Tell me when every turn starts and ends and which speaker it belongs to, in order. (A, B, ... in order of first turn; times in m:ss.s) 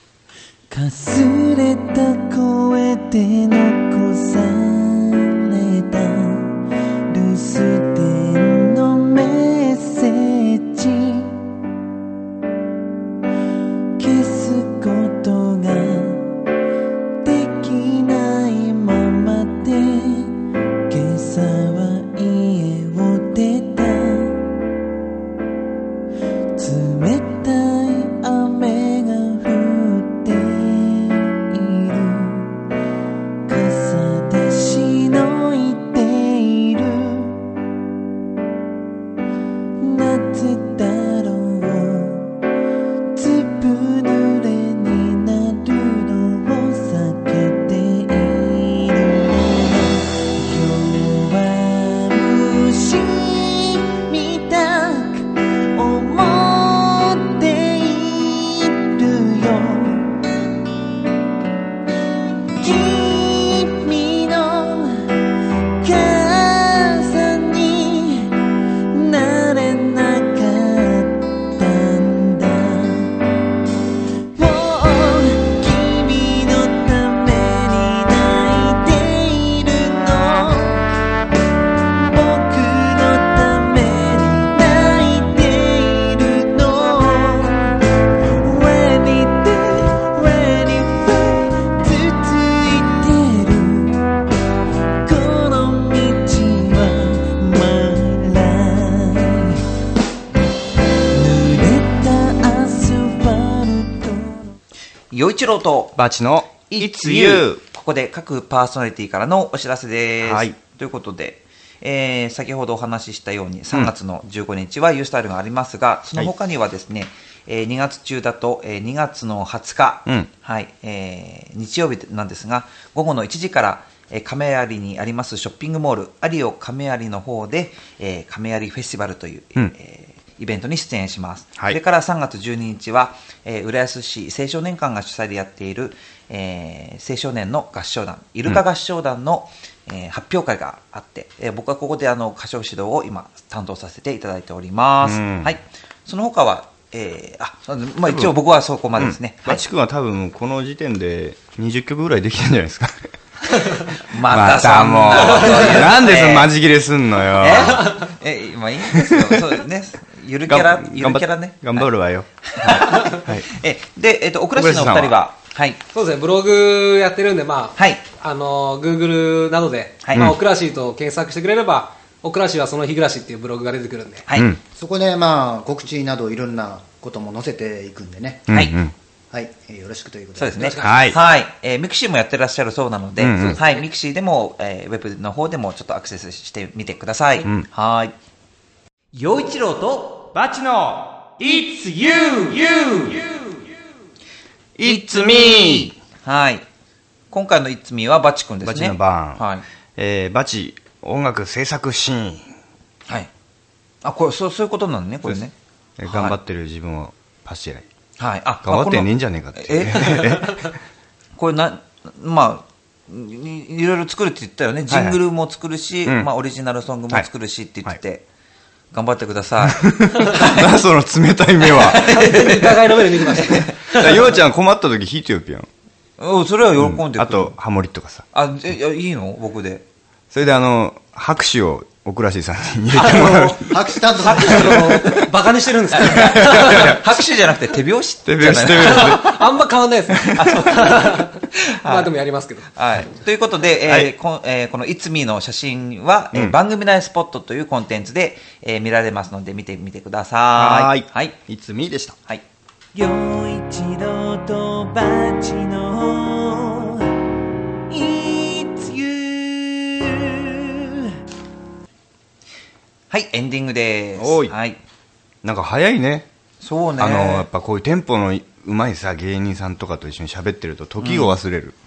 0:00.7-0:06.5 A
0:07.1-0:11.4 A
0:14.0-0:16.2 A
0:17.2-0:20.3 A
0:20.9-0:24.4 A
0:26.6-0:32.5 A
0:33.5-0:37.4 A
0:39.8-0:42.3 A
0:43.2-1:00.2 A
1:02.6-1:05.1 A
1:05.8-1:08.3 A
1:08.9-1:13.1 A
1:14.4-1:20.9 A
1:22.1-1:27.8 A
1:28.4-1:34.0 A
1:35.0-1:39.6 A
1:41.1-1:44.6 A
1:45.1-1:46.0 B
1:46.0-1:47.6 C
1:46.7-2:29.6 B
1:50.2-1:50.6 C
2:25.0-2:25.5 C
2:28.1-2:28.3 C
2:29.0-2:33.1 C
2:34.0-2:36.5 B
2:34.2-2:38.0 C
2:37.4-2:41.9 B
2:38.9-2:39.6 C
2:40.5-2:43.5 C
2:42.5-2:45.8 B
2:44.6-2:45.2 C
2:45.9-2:54.3 D
2:47.8-2:48.0 B
2:50.0-2:50.3 B
2:54.3-2:54.5 B
2:54.4-2:54.6 C
2:54.7-2:58.5 E
2:58.5-2:58.9 C
2:58.5-2:58.8 B
2:59.3-3:00.6 E
3:00.4-3:08.1 B
3:00.5-3:01.1 D
3:00.8-3:01.2 C
3:03.2-3:03.6 C
3:03.4-3:03.8 D
3:09.3-3:10.2 A
3:10.3-3:12.1 C
3:12.2-3:12.6 A
3:12.8-3:13.1 C
3:14.8-3:15.9 C
3:14.8-3:16.6 B
3:17.3-3:19.6 B
3:18.6-3:19.4 C
3:20.0-3:22.4 C
3:24.0-3:26.4 B
3:26.0-3:27.9 C
3:28.2-3:30.4 B
3:28.6-3:30.8 C
3:31.4-3:38.2 B
3:34.9-3:35.2 C
3:38.9-3:40.7 B
3:39.6-3:42.1 C
3:41.6-3:44.3 B
3:41.9-3:44.1 D
3:43.9-3:45.7 C
3:46.2-3:47.6 B
3:46.8-3:48.3 C
3:48.3-3:49.8 B
3:50.3-3:53.8 C
3:52.9-3:53.5 B
3:53.0-3:54.8 E
3:54.1-3:55.3 B
3:54.2-3:57.0 D
3:56.0-3:57.0 C
3:56.0-3:59.2 B
3:58.3-3:59.5 C
3:58.6-4:02.7 D
4:00.1-4:00.4 C
4:00.3-4:02.1 B
4:02.8-4:11.4 B
4:03.9-4:04.1 C
4:10.6-4:12.2 C
4:12.9-4:17.1 A
4:17.9-4:21.1 A
4:23.1-4:24.8 B
4:24.2-4:24.6 C
4:25.4-4:26.3 C
4:26.6-4:27.5 B
4:27.0-4:31.8 C
4:31.0-4:31.4 B